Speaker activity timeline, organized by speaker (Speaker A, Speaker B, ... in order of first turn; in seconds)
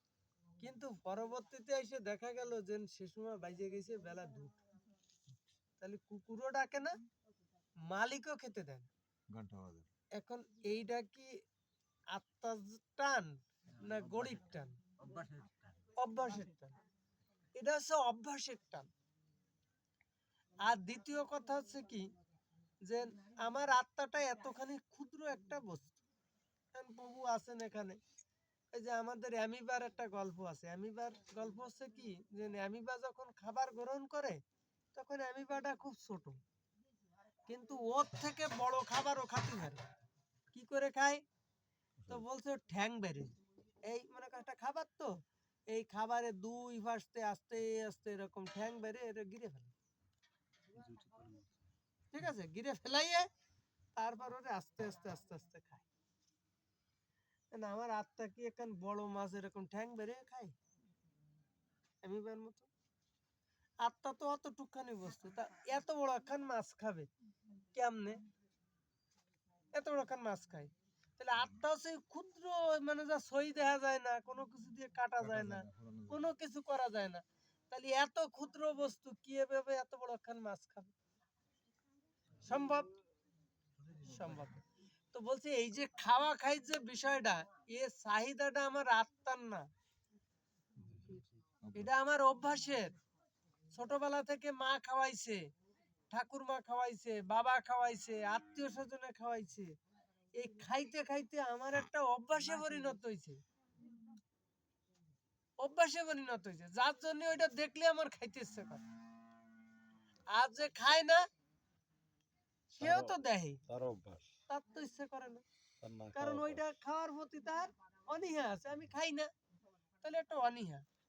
Speaker A: 0.6-4.5, 5.8-7.0, 7.9-8.9, 10.2-11.3, 12.1-14.8, 16.0-16.8, 17.6-18.9, 20.6-22.1, 22.9-26.0, 26.7-28.0, 28.7-34.4, 34.9-36.4, 37.5-39.8, 40.5-41.2, 42.1-43.3, 43.9-49.7, 52.1-53.3, 54.0-55.9, 57.5-60.5, 62.0-62.7, 63.8-67.1, 67.7-68.2, 69.7-80.9, 82.4-82.9, 84.0-89.7, 91.7-92.9, 93.7-95.5, 96.1-99.8, 100.3-103.4, 105.6-108.8, 110.3-111.3, 112.7-113.6, 114.5-115.4, 116.1-119.3, 120.0-120.8
Speaker B: 9.3-9.9, 75.2-76.3, 91.6-91.9
Speaker C: 15.0-15.7, 50.7-51.4, 112.8-113.1, 113.7-114.3, 115.8-116.6